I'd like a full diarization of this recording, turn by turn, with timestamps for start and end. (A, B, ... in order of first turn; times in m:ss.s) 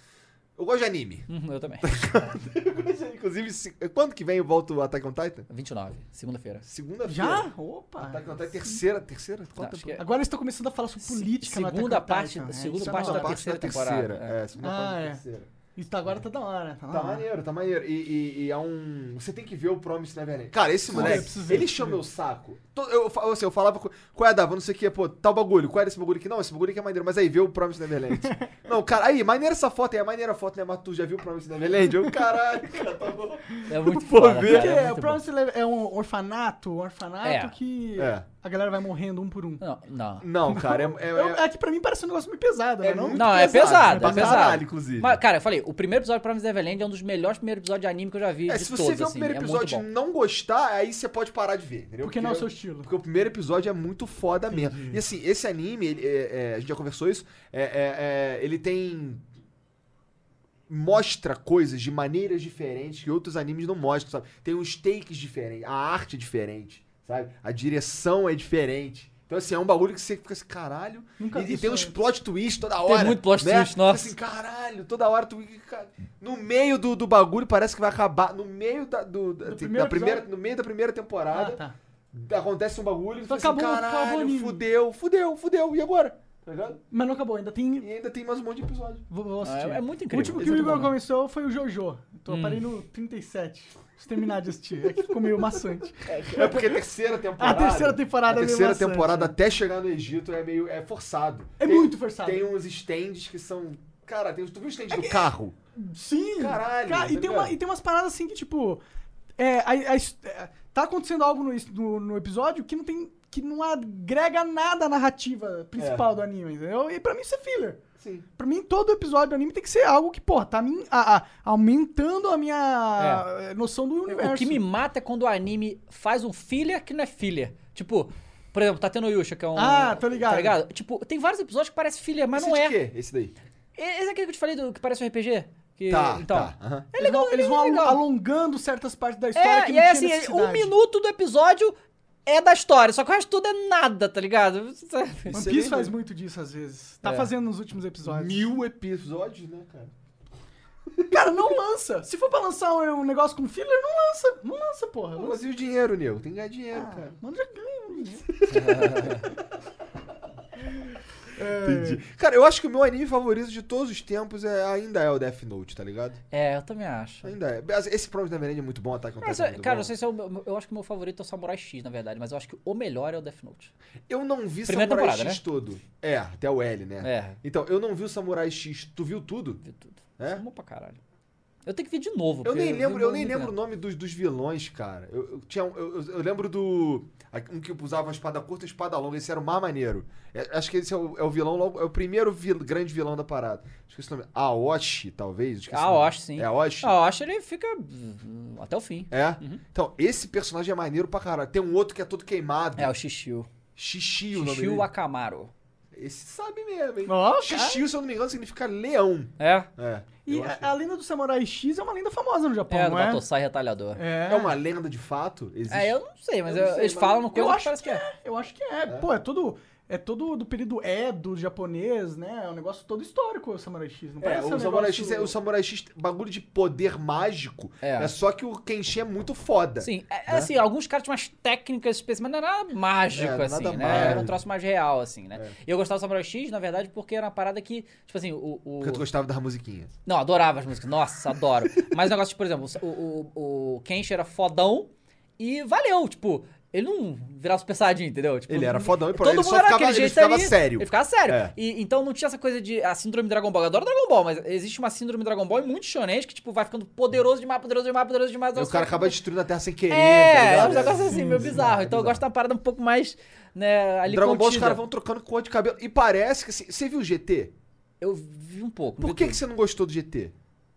0:00.6-0:01.3 A
0:01.3-0:01.9 B
0:01.8-0:05.5 A
0:05.5-0:06.6 B
0:06.6-0:10.0 A
0:07.0-0:08.8 C
0:09.6-0:10.0 B
0:10.0-0:13.4 C
0:11.0-0:14.4 B
0:12.8-0:15.5 A
0:14.6-0:15.2 C
0:15.8-0:17.2 C
0:16.9-0:34.8 A
0:20.9-0:22.0 C
0:33.7-0:35.2 B
0:34.4-0:39.6 C
0:37.2-0:37.5 B
0:38.0-0:38.2 A
0:39.6-0:40.3 B
0:40.2-0:41.4 A
0:40.5-0:44.6 C
0:42.8-0:45.2 A
0:43.1-0:49.8 B
0:48.5-0:59.2 A
0:52.0-0:52.9 C
0:54.5-0:55.0 C
1:00.7-1:21.6 A
1:11.2-1:11.9 C
1:12.8-1:14.1 B
1:19.4-1:20.2 C
1:21.3-1:21.7 C
1:22.1-1:26.8 A
1:23.3-1:24.6 C
1:26.9-1:27.9 C
1:27.8-1:29.0 A
1:29.1-1:36.7 C
1:29.4-1:30.9 B
1:30.4-1:30.8 A
1:32.3-1:32.6 B
1:35.0-1:35.3 A
1:36.1-1:45.5 A
1:37.4-1:39.3 C
1:41.6-1:42.5 C
1:44.9-1:48.8 C
1:46.4-1:47.6 A
1:49.4-1:57.8 C
1:55.8-1:56.1 A
1:58.0-1:58.2 A
1:58.4-2:04.6 C
2:03.0-2:03.2 B
2:04.1-2:12.8 B
2:09.5-2:10.6 C
2:12.3-2:13.3 A
2:13.8-2:18.0 B
2:15.9-2:16.9 A
2:17.0-2:20.7 C
2:19.3-2:25.4 B
2:25.3-2:25.9 A
2:25.3-2:28.5 C
2:27.0-2:27.3 B
2:28.0-2:29.9 A
2:31.1-2:35.4 C
2:35.2-2:37.2 A
2:36.7-2:38.3 C
2:38.4-2:39.2 A
2:38.5-2:39.3 B
2:41.3-2:42.0 C
2:41.5-2:46.2 A
2:46.3-2:47.3 B
2:47.2-2:49.9 A
2:49.2-2:53.7 B
2:54.1-2:59.6 A
2:54.7-2:55.4 B
2:57.0-2:57.4 B
2:59.6-3:01.0 B
3:00.2-3:00.4 A
3:01.6-3:03.5 B
3:02.4-3:16.9 A
3:15.7-3:19.6 B
3:19.1-3:22.9 A
3:22.8-3:23.5 B
3:23.8-3:24.9 A
3:24.3-3:25.5 B
3:25.9-3:30.7 A
3:27.0-3:27.8 C
3:29.4-3:29.7 B
3:30.2-3:33.2 C
3:32.7-3:34.0 B
3:34.0-3:34.6 C
3:34.3-3:37.3 A
3:35.7-3:38.0 B
3:37.3-3:45.3 C
3:44.2-3:50.5 A
3:47.8-3:48.1 B
3:49.8-3:59.0 B
3:53.1-3:54.4 A
3:58.8-3:59.9 A
4:00.0-4:19.2 B
4:08.5-4:11.5 A
4:18.5-4:22.2 A
4:19.9-4:24.8 B
4:20.6-4:21.6 C
4:24.0-4:27.5 A
4:28.0-4:29.4 B
4:29.0-4:30.3 A